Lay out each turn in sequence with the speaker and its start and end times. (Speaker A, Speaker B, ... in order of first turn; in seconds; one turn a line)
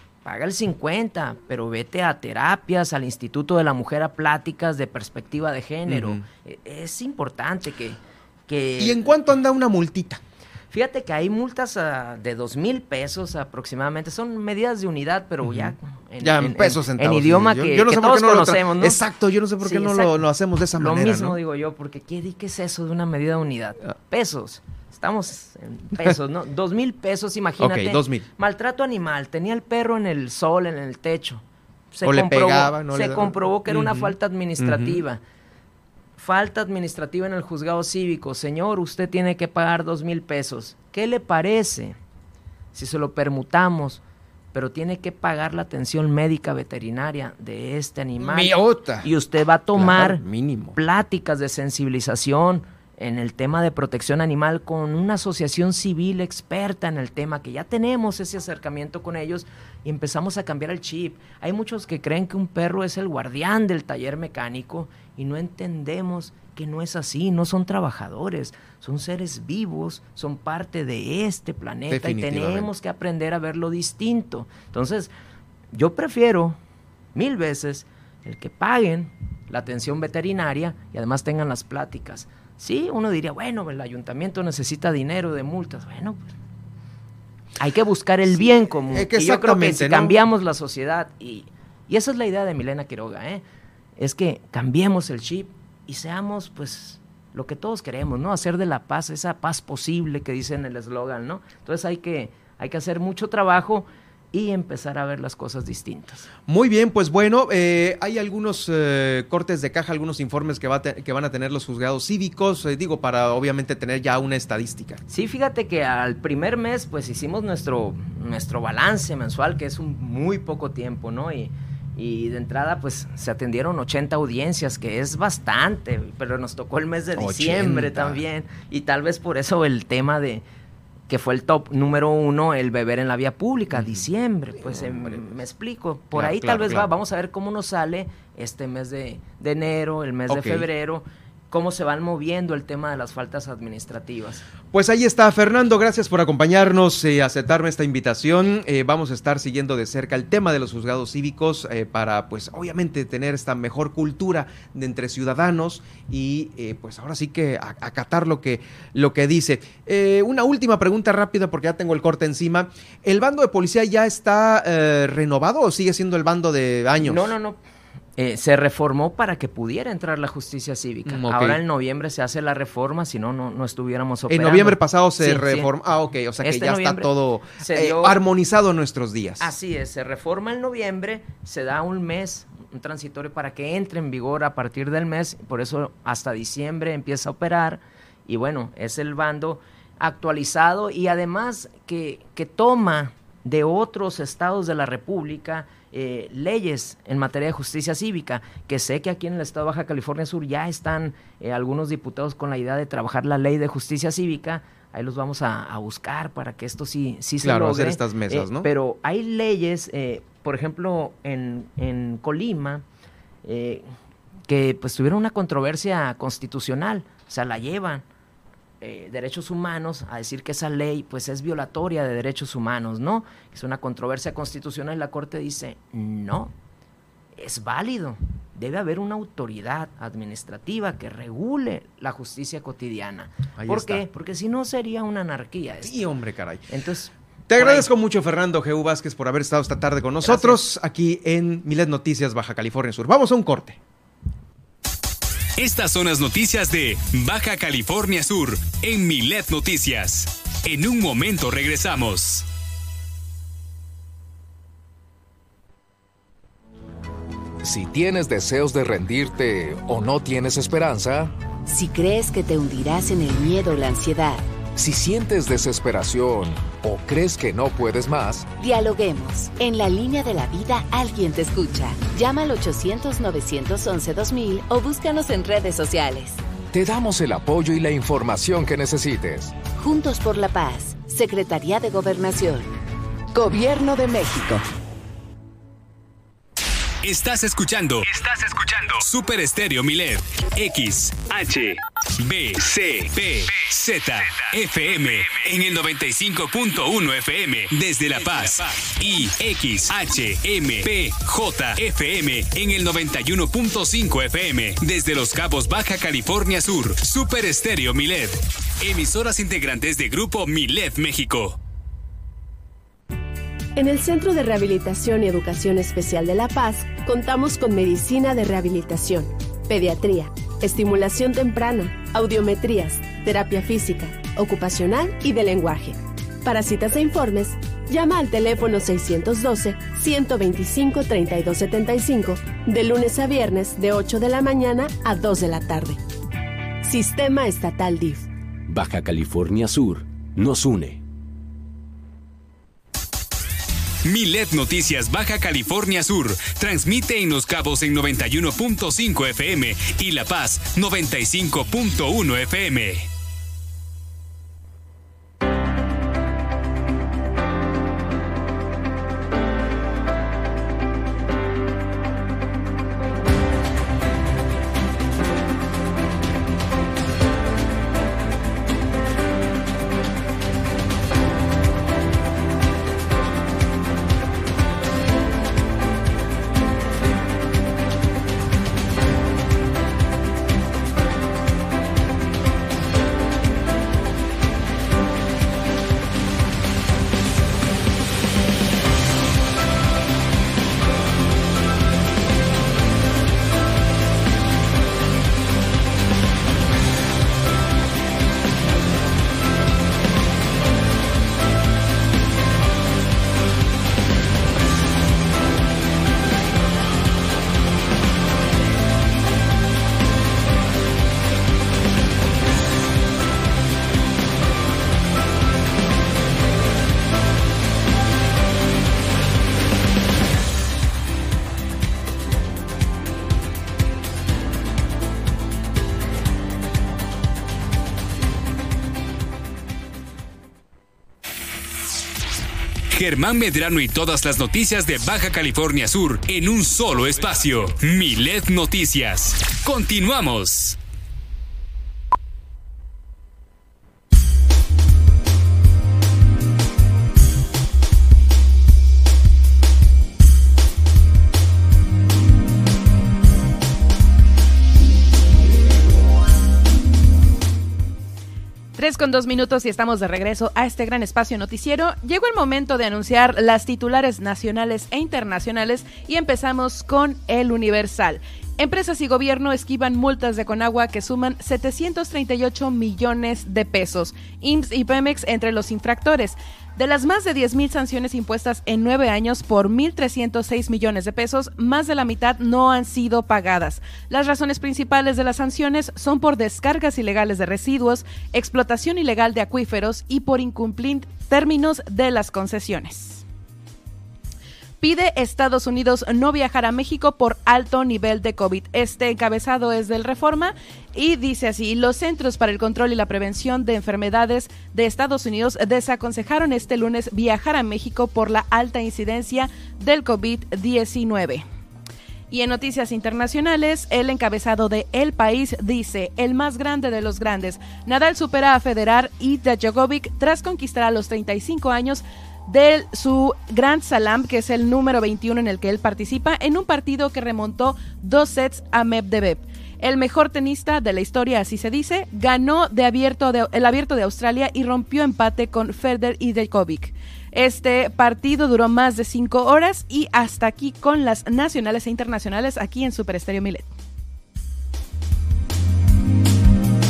Speaker A: 0.2-9.1
Speaker B: 5.9-6.2
Speaker B: 8.8-10.2
Speaker A: 10.7-19.0
Speaker B: 15.4-21.4
Speaker A: 19.6-20.1
Speaker A: 20.7-35.2
Speaker B: 27.6-28.2
Speaker B: 32.0-35.0
Speaker A: 36.2-42.0
Speaker A: 42.7-44.0
Speaker A: 44.5-50.2
Speaker B: 48.2-49.1
Speaker B: 49.7-50.8
Speaker A: 50.7-75.1
Speaker B: 71.9-72.7
Speaker A: 75.7-76.6
Speaker A: 77.1-86.3
Speaker A: 87.6-93.4
Speaker B: 88.4-90.2
Speaker A: 94.0-106.3
Speaker B: 106.5-115.0
Speaker A: 115.1-130.4
Speaker B: 127.2-128.2
Speaker A: 131.1-144.4
Speaker B: 133.7-134.1
Speaker B: 134.6-135.4
Speaker B: 136.1-136.9
Speaker B: 140.3-140.7
Speaker B: 144.7-167.3
Speaker A: 167.0-167.6
Speaker A: 168.2-175.7
Speaker B: 171.1-171.6
Speaker B: 174.3-179.5
Speaker A: 176.4-178.2
Speaker A: 179.4-212.8
Speaker B: 207.4-208.7
Speaker A: 213.4-213.8
Speaker A: 214.5-218.0
Speaker A: 218.8-226.5
Speaker A: 227.4-235.9
Speaker B: 233.6-234.1
Speaker B: 235.8-236.6
Speaker A: 236.7-237.9
Speaker B: 237.5-243.8
Speaker A: 240.2-240.6
Speaker C: 245.6-252.4
Speaker D: 257.6-261.3
Speaker E: 261.6-264.5
Speaker D: 264.8-268.4
Speaker E: 268.5-276.4
Speaker D: 276.7-279.5
Speaker E: 279.8-282.7
Speaker E: 283.3-284.6
Speaker C: 287.0-311.6
Speaker F: 313.8-336.0
Speaker F: 336.9-338.2
Speaker G: 338.7-341.0
Speaker C: 344.0-353.1
Speaker C: 432.9-440.8
Speaker H: 458.8-493.2
Speaker H: 494.8-511.4
Speaker H: 512.3-543.6